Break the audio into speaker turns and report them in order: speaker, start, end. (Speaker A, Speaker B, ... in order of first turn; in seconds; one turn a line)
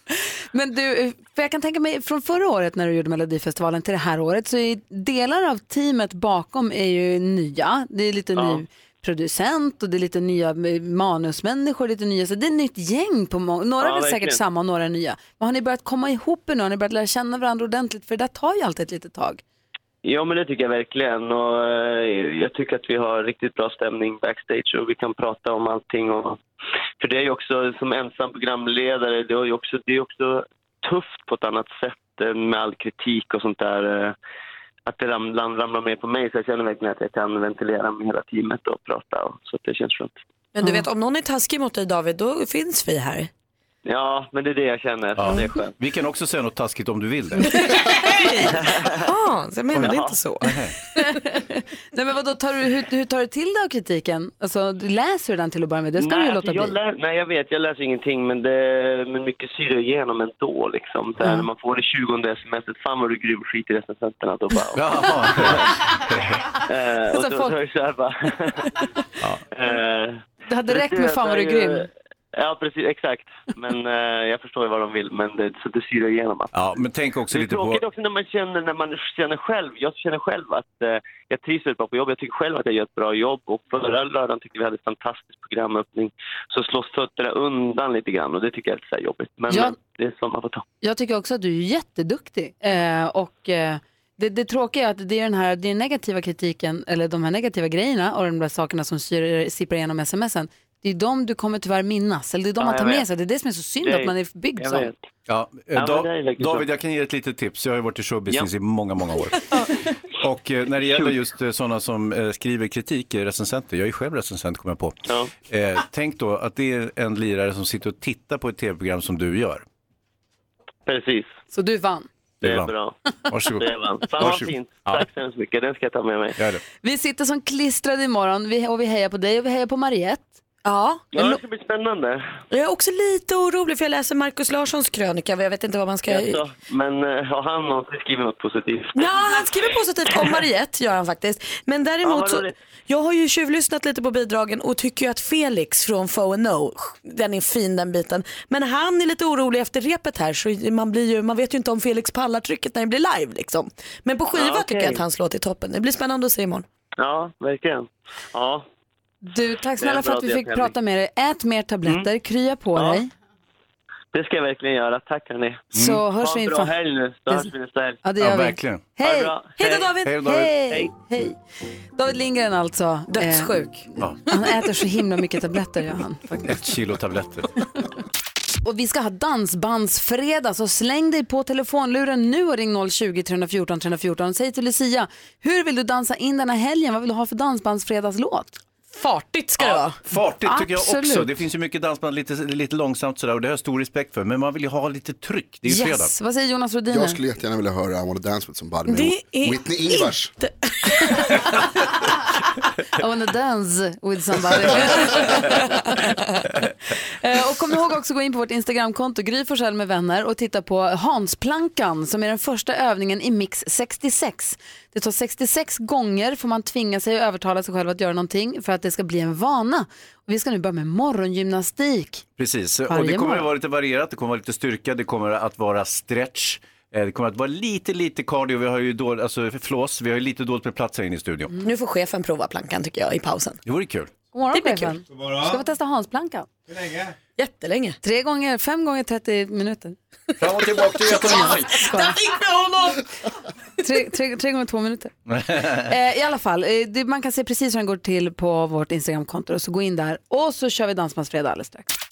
Speaker A: 0.5-19.4
Speaker B: 8.3-8.6
Speaker B: 13.8-14.4
Speaker B: 20.1-26.4
Speaker B: 27.0-34.1
Speaker B: 34.9-40.2
Speaker C: 40.5-43.3
Speaker A: 40.6-40.9
Speaker B: 43.9-45.7
Speaker D: 45.2-47.5
Speaker C: 47.5-50.7
Speaker B: 48.5-49.1
Speaker D: 49.8-50.7
Speaker A: 51.0-56.8
Speaker B: 56.0-65.6
Speaker A: 61.2-61.5
Speaker D: 64.7-66.5
Speaker B: 66.7-68.8
Speaker A: 67.1-67.6
Speaker B: 69.5-76.7
Speaker A: 70.5-71.9
Speaker D: 76.5-77.8
Speaker B: 77.3-90.6
Speaker A: 89.5-89.8
Speaker A: 90.8-104.9
Speaker B: 102.6-103.1
Speaker B: 103.8-105.0
Speaker D: 105.3-109.4
Speaker B: 105.8-106.7
Speaker D: 110.1-119.7
Speaker B: 110.9-111.2
Speaker B: 120.9-121.3
Speaker A: 121.5-122.1
Speaker D: 122.4-122.7
Speaker B: 122.4-123.0
Speaker D: 123.3-123.7
Speaker B: 123.5-126.4
Speaker D: 124.2-125.1
Speaker D: 126.4-126.6
Speaker A: 126.8-130.4
Speaker C: 130.7-131.1
Speaker B: 131.1-132.2
Speaker C: 132.5-136.4
Speaker B: 136.1-139.1
Speaker C: 138.9-156.7
Speaker B: 142.0-142.5
Speaker B: 154.3-155.0
Speaker B: 157.0-158.7
Speaker A: 159.2-163.1
Speaker B: 159.8-160.7
Speaker B: 162.8-163.0
Speaker B: 164.1-168.0
Speaker A: 165.7-166.8
Speaker D: 165.7-166.0
Speaker A: 168.0-169.4
Speaker D: 168.2-168.9
Speaker B: 169.0-169.9
Speaker C: 169.6-170.1
Speaker D: 170.0-170.6
Speaker A: 170.2-171.3
Speaker A: 172.0-176.5
Speaker C: 173.1-173.8
Speaker D: 176.4-177.5
Speaker A: 178.6-188.6
Speaker C: 188.9-190.0
Speaker D: 189.6-196.1
Speaker A: 190.4-191.3
Speaker A: 195.7-197.2
Speaker E: 196.9-200.3
Speaker C: 198.9-201.2
Speaker A: 202.9-206.1
Speaker A: 207.2-222.2
Speaker D: 222.4-231.5
Speaker A: 222.9-223.5
Speaker C: 231.6-233.6
Speaker D: 233.7-234.1
Speaker A: 234.3-236.5
Speaker C: 234.5-235.0
Speaker C: 237.4-238.0
Speaker A: 238.0-240.0
Speaker D: 240.4-242.1
Speaker A: 241.3-242.2
Speaker C: 241.4-242.9
Speaker A: 243.8-251.9
Speaker D: 245.3-245.9